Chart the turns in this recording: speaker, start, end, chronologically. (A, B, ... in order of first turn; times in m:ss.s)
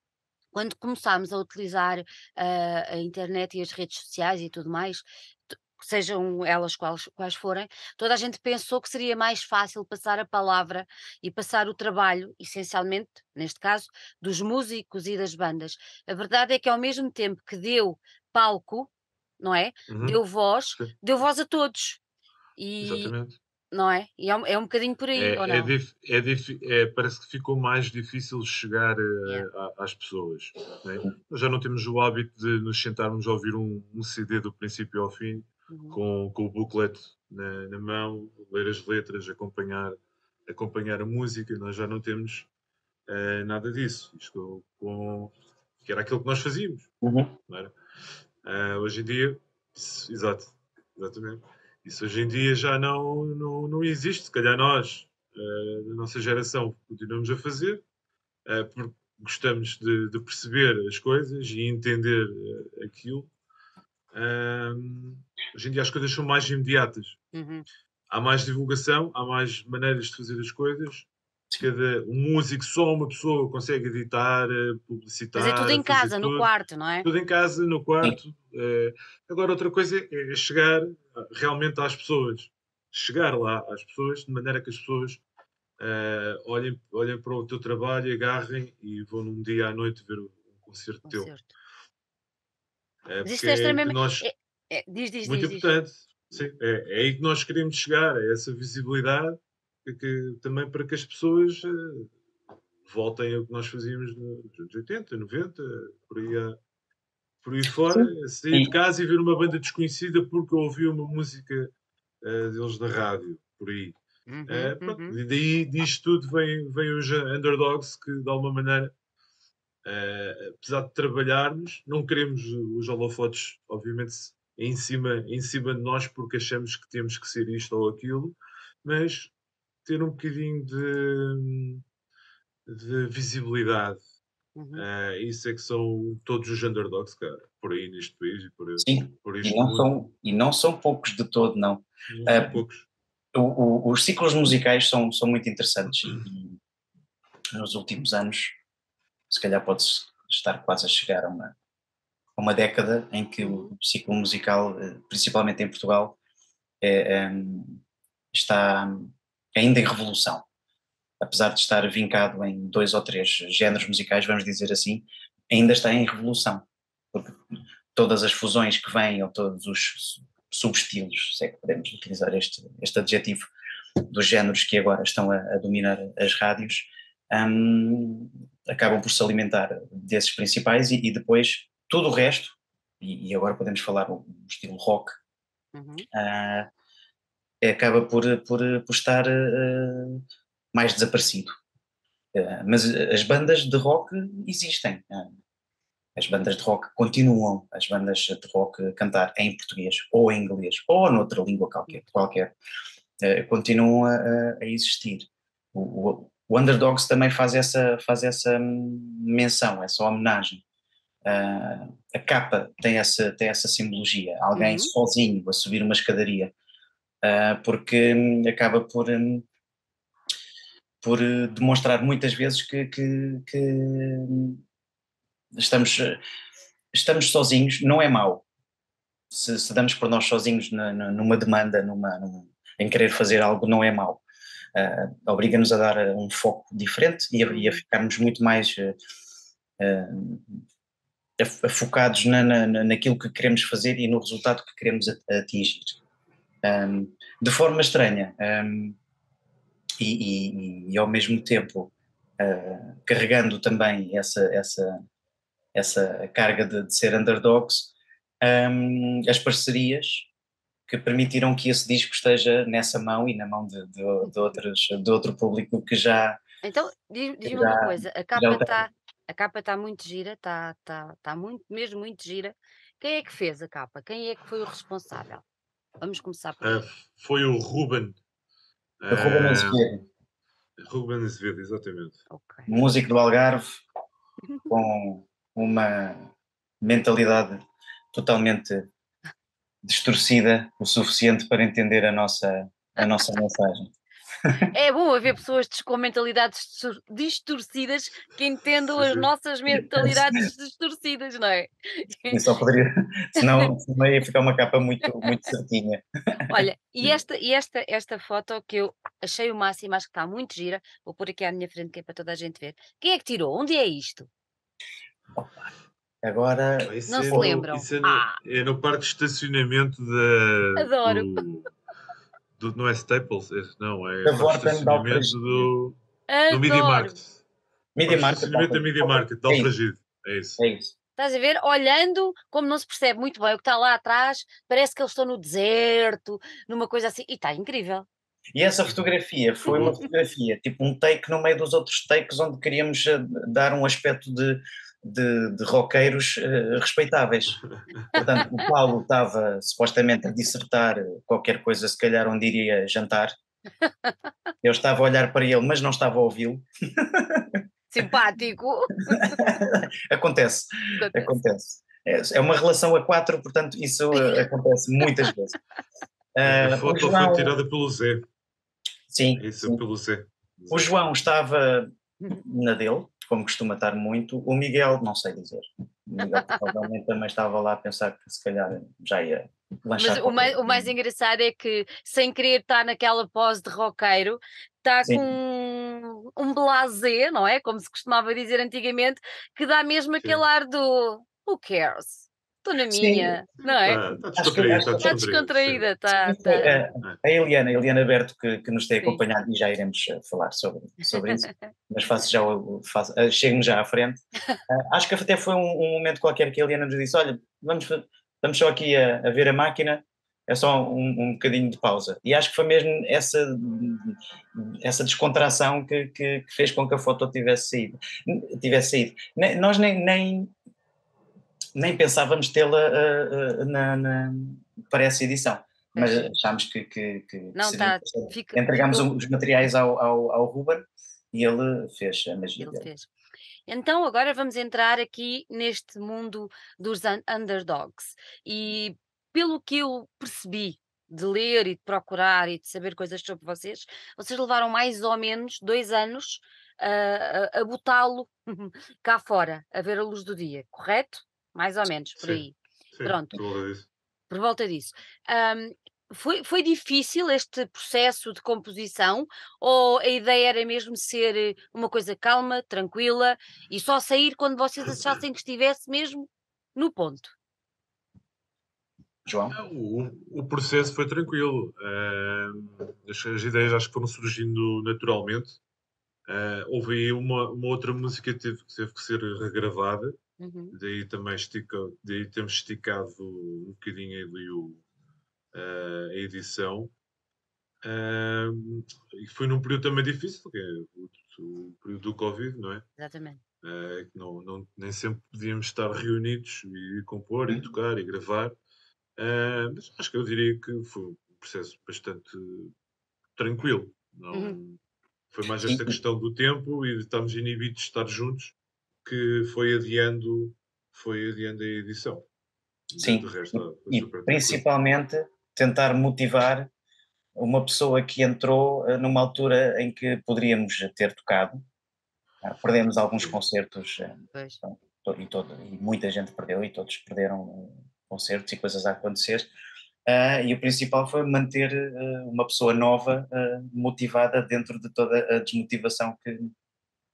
0:00.5-0:22.0 A
0:19.9-0:20.2 B
0:22.6-0:23.1 A
0:22.8-0:23.4 B
0:23.7-0:25.7 A
0:25.1-0:42.5 B
0:35.7-0:36.0 A
0:43.1-0:46.9 B
0:47.0-0:47.3 C
0:48.4-0:57.8 B
0:58.4-1:03.3 B
1:04.1-1:07.2 B
1:07.3-1:07.6 A
1:08.1-1:11.1 B
1:11.6-1:16.5 B
1:15.3-1:17.1 A
1:17.0-1:25.2 B
1:25.8-1:31.3 B
1:31.0-1:31.5 A
1:33.0-1:34.3 B
1:33.2-1:35.7 A
1:35.2-1:42.1 B
1:42.8-1:46.6 B
1:47.4-1:58.9 B
1:47.9-1:48.7 C
1:54.3-1:55.2 A
1:59.8-2:09.3 B
2:09.8-2:11.8 B
2:12.7-2:14.0 B
2:14.6-2:14.8 A
2:14.7-2:19.9 B
2:18.8-2:22.6 C
2:22.1-2:22.8 B
2:23.3-2:26.6 C
2:27.5-2:28.6 C
2:29.3-2:31.5 C
2:32.4-2:36.2 C
2:33.4-2:33.7 A
2:36.8-2:37.8 C
2:38.3-2:40.4 C
2:41.2-2:47.4 C
2:47.9-2:53.5 C
2:54.1-3:05.2 C
3:05.7-3:06.0 A
3:06.1-3:06.7 C
3:07.6-3:11.6 C
3:12.3-3:15.4 C
3:16.2-3:22.5 C
3:21.9-3:22.3 A
3:23.2-3:30.6 C
3:31.2-3:36.5 C
3:34.5-3:34.9 A
3:37.2-3:39.4 C
3:41.0-3:44.6 C
3:45.6-3:46.2 C
3:46.9-3:48.4 C
3:49.3-3:54.2 C
3:54.7-3:59.0 C
3:57.5-3:57.8 A
3:59.8-4:00.6 C
4:01.4-4:06.0 C
4:06.6-4:09.0 C
4:10.0-4:15.0 C
4:15.7-4:20.3 C
4:20.9-4:26.4 C
4:26.6-4:35.4 A
4:27.4-4:28.8 C
4:36.0-4:36.8 A
4:36.6-4:38.2 B
4:39.0-4:39.8 B
4:39.1-4:40.0 C
4:40.8-4:42.2 B
4:42.3-4:42.7 A
4:42.7-4:43.8 C
4:44.7-4:46.3 C
4:46.8-4:47.6 C
4:48.1-4:48.9 C
4:49.8-4:53.9 C
4:54.7-5:02.4 A
4:59.0-4:59.3 B
4:59.7-5:00.3 C
5:02.3-5:06.5 C
5:06.5-5:14.3 A
5:16.2-5:17.6 C
5:16.8-5:21.7 B
5:17.1-5:18.4 A
5:20.8-5:21.4 A
5:22.6-5:26.0 B
5:24.2-5:25.7 C
5:26.3-5:27.2 A
5:26.5-5:27.3 B
5:28.0-5:29.7 C
5:28.0-5:30.6 B
5:30.6-5:30.9 C
5:31.2-5:38.0 A
5:38.5-5:47.6 C
5:39.7-5:40.0 B
5:48.1-5:53.3 C
5:48.1-5:48.6 A
5:53.8-5:54.1 A
5:54.6-5:57.6 C
5:57.9-5:59.3 A
5:59.1-6:05.6 C
6:01.0-6:01.3 A
6:06.3-6:07.5 C
6:06.4-6:08.3 B
6:09.1-6:09.8 C
6:09.4-6:10.9 B
6:10.7-6:20.9 C
6:16.2-6:16.6 A
6:20.0-6:34.0 A
6:32.9-6:33.4 C
6:33.8-6:35.8 B
6:34.2-6:35.2 C
6:35.0-6:36.8 A
6:36.1-7:00.5 C
6:41.1-6:41.6 A
7:01.8-7:12.9 C
7:05.9-7:06.4 A
7:07.5-7:09.1 A
7:12.6-7:13.1 A
7:13.7-7:33.4 A
7:32.2-7:33.9 B
7:34.3-7:47.3 A
7:49.2-7:49.6 C
7:49.5-7:55.6 B
7:56.3-8:00.2 B
8:00.4-8:00.8 A
8:00.7-8:04.8 B
8:05.5-8:06.9 B
8:07.8-8:12.8 B
8:13.0-8:13.4 A
8:13.6-8:18.5 B
8:19.2-8:22.7 B
8:23.4-8:24.8 B
8:24.3-8:24.6 A
8:25.3-8:28.5 B
8:25.6-8:26.0 C
8:29.0-8:32.2 B
8:32.9-8:34.6 B
8:33.0-8:36.7 C
8:37.4-8:41.6 C
8:42.4-8:49.5 C
8:44.3-8:44.6 A
8:50.0-8:56.5 C